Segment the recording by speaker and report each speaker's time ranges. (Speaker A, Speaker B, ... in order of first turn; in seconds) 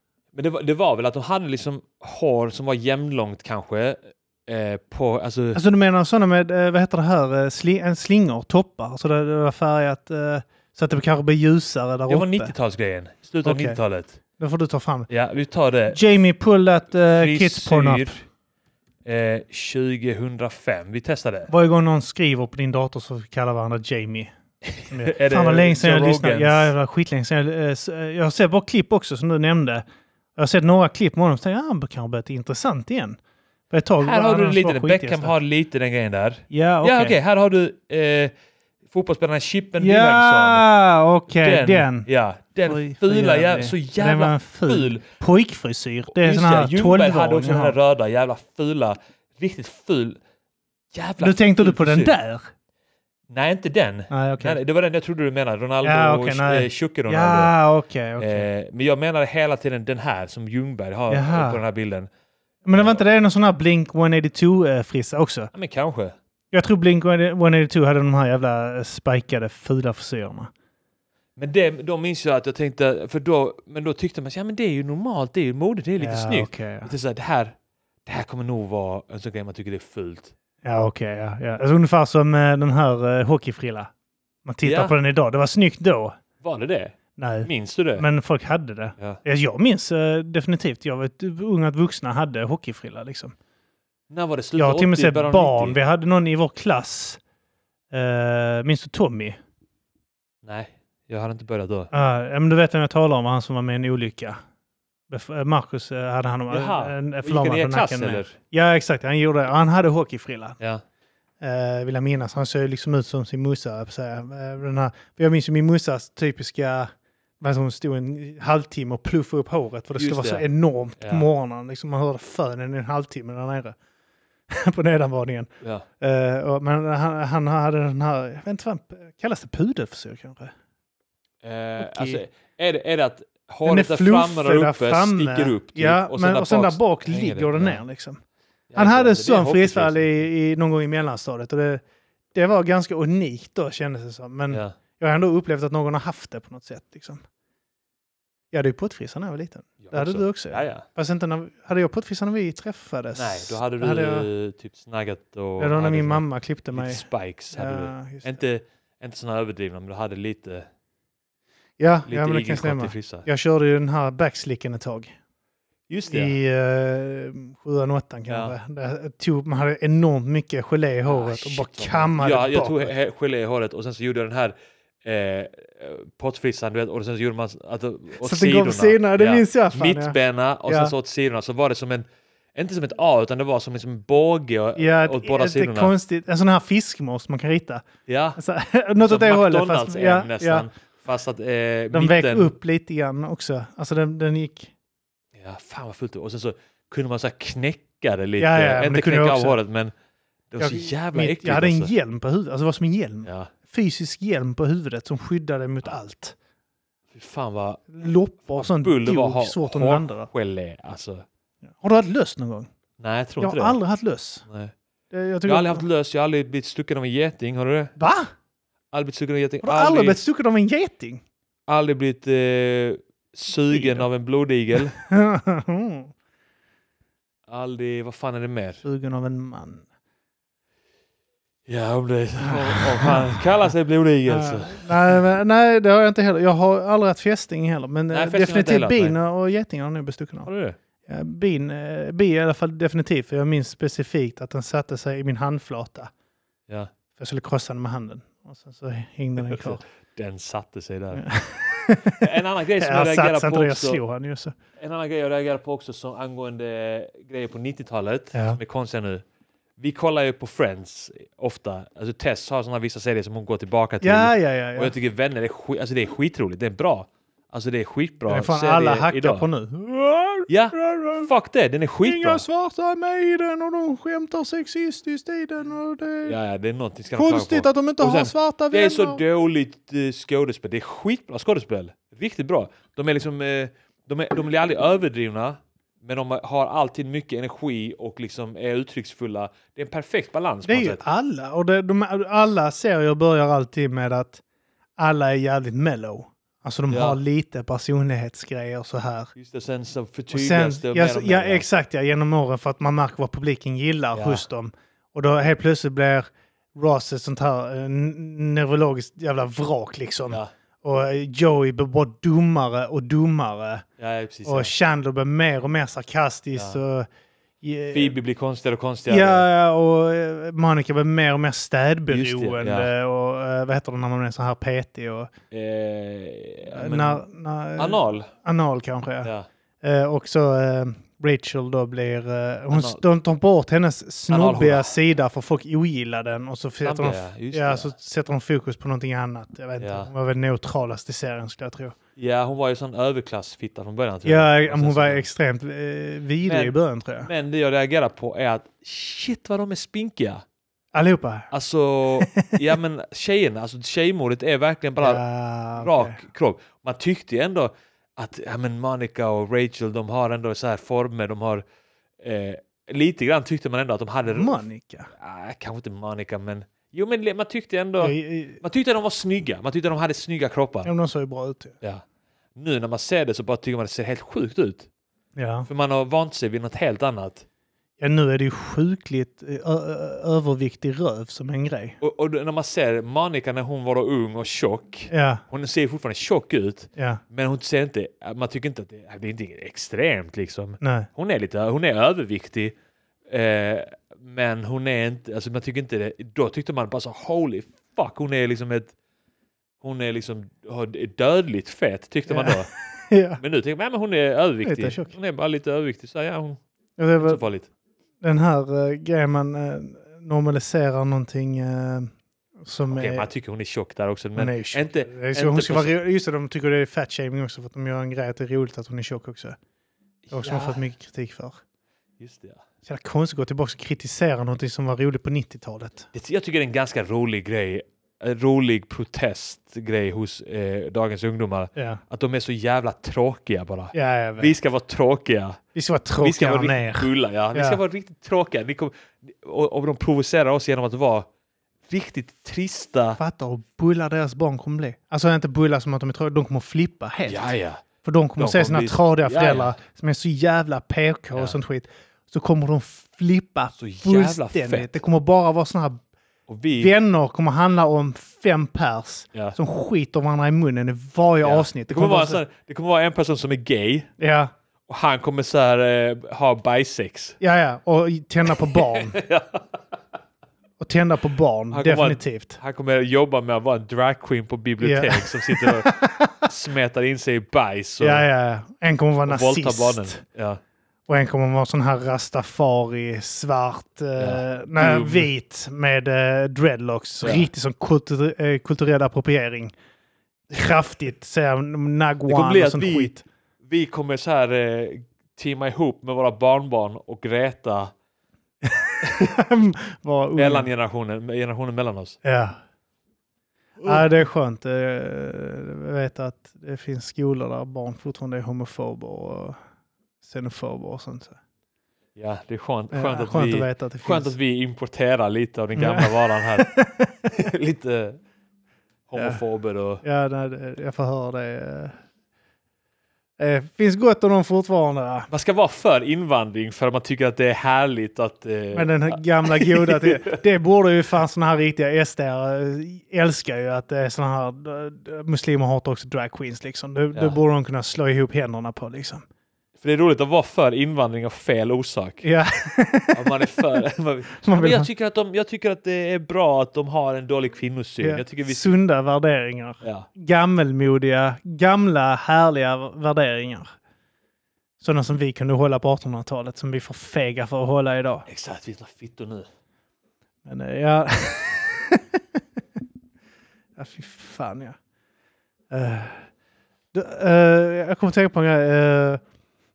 Speaker A: 0.3-5.6, 12.1-14.2, 15.1-16.0, 17.0-18.2, 19.1-21.5, 24.6-26.7, 34.0-38.3, 38.9-40.7, 41.3-45.1, 46.1-50.2, 50.9-52.1, 53.3-57.5, 58.2-62.1, 65.5-66.2, 71.4-80.3, 84.6-85.0, 86.4-88.1, 94.1-95.8, 100.4-101.9, 106.5-108.4, 120.0-120.5, 121.0-121.3, 131.4-137.8, 138.7-140.2, 144.5-144.8, 149.8-150.9, 153.2-160.7, 162.1-163.3, 165.9-166.4, 168.3-168.6, 171.1-185.9, 188.1-188.4, 189.0-192.5, 195.3-199.9, 200.5-201.9, 203.2-203.5, 207.1-207.9, 208.5-211.3, 213.0-213.8, 214.5-214.7, 215.4-217.9, 218.9-220.2, 221.7-225.0, 227.5-228.8, 231.7-235.2, 238.1-239.2, 240.4-240.8, 249.4-251.3, 252.2-254.0, 254.8-259.2, 259.8-269.4, 270.5-272.4, 276.2-291.0, 296.9-297.2, 299.4-301.6, 304.1-304.4, 314.0-314.7, 316.6-316.8, 317.9-319.5, 322.1-322.9, 325.5-327.2, 327.8-328.3, 332.7-333.0, 334.3-334.9, 336.8-337.9, 339.8-340.1, 342.2-345.3, 346.4-350.4, 351.5-355.2, 355.8-361.6, 362.2-370.9, 372.6-374.9, 375.7-377.4, 382.0-392.8, 393.3-398.9, 399.8-402.7, 403.4-406.6, 407.2-407.7, 412.9-415.9, 420.3-420.8, 422.2-422.6, 426.1-435.6, 436.2-441.3, 441.9-443.2, 447.2-447.8, 448.4-449.8, 453.8-455.0, 456.5-456.9, 461.4-464.1, 464.9-467.4, 468.6-469.8, 471.7-478.3, 479.2-480.6, 484.2-485.3, 487.2-487.5, 492.3-493.1, 493.6-497.9, 499.0-499.3, 500.4-502.2, 503.8-504.1, 512.2-516.7, 517.3-518.2, 519.1-520.0, 525.3-530.4, 539.8-542.3, 543.1-548.8, 549.8-550.1, 558.3-559.5
Speaker B: 5.5-12.5, 13.4-13.8, 14.4-15.1, 15.9-18.2, 21.5-24.3, 24.9-29.9, 30.4-33.2, 33.7-35.4, 36.5-37.2, 39.8-42.1, 42.6-47.8, 51.2-52.5, 54.1-54.6, 55.8-58.5, 61.1-61.6, 62.6-65.5, 66.5-70.5, 76.0-76.9, 80.6-83.9, 84.5-86.2, 87.2-93.3, 94.6-97.2, 97.9-99.4, 101.9-104.4, 105.1-110.6, 111.4-123.8, 124.5-130.5, 131.8-132.2, 133.7-138.2, 138.8-141.8, 142.3-147.2, 148.5-154.3, 155.6-158.4, 161.8-165.2, 166.1-172.9, 178.2-180.9, 184.8-187.8, 188.4-190.7, 191.9-194.7, 198.4-199.6, 200.6-206.4, 207.9-210.3, 211.8-212.7, 213.4-214.4, 215.1-215.9, 218.0-218.3, 219.6-221.2, 223.7-224.1, 224.8-226.1, 228.8-229.8, 232.4-233.5, 234.3-240.5, 241.1-246.1, 247.2-249.8, 251.2-254.6, 258.3-258.6, 264.0-264.9, 268.3-271.3, 272.0-276.4, 277.1-279.2, 290.7-294.4, 295.0-299.3, 300.3-313.9, 314.4-317.1, 317.6-318.2, 319.1-325.3, 326.7-342.0, 344.2-347.3, 350.9-351.5, 352.2-352.6, 355.0-356.2, 364.3-365.1, 368.0-368.6, 370.9-371.8, 375.4-375.7, 378.0-382.0, 385.1-385.4, 387.0-387.2, 390.8-391.1, 402.3-403.4, 404.6-405.1, 407.0-407.4, 408.2-413.3, 414.4-419.6, 420.3-421.6, 422.9-426.1, 431.8-432.0, 433.9-434.5, 435.8-437.8, 443.2-447.4, 448.0-456.0, 456.8-462.4, 464.2-464.5, 467.4-469.2, 470.8-472.6, 474.8-476.4, 478.0-480.2, 481.1-489.7, 490.5-493.2, 498.6-500.7, 502.2-502.6, 503.8-509.6, 510.2-511.4, 512.9-514.4, 515.8-517.1, 519.2-519.4, 520.0-522.0, 523.4-525.3, 528.7-539.2, 542.2-543.5, 544.4-544.9, 548.0-553.7, 554.8-558.3, 560.5-562.6, 563.8-564.8, 565.7-566.3, 566.9-569.2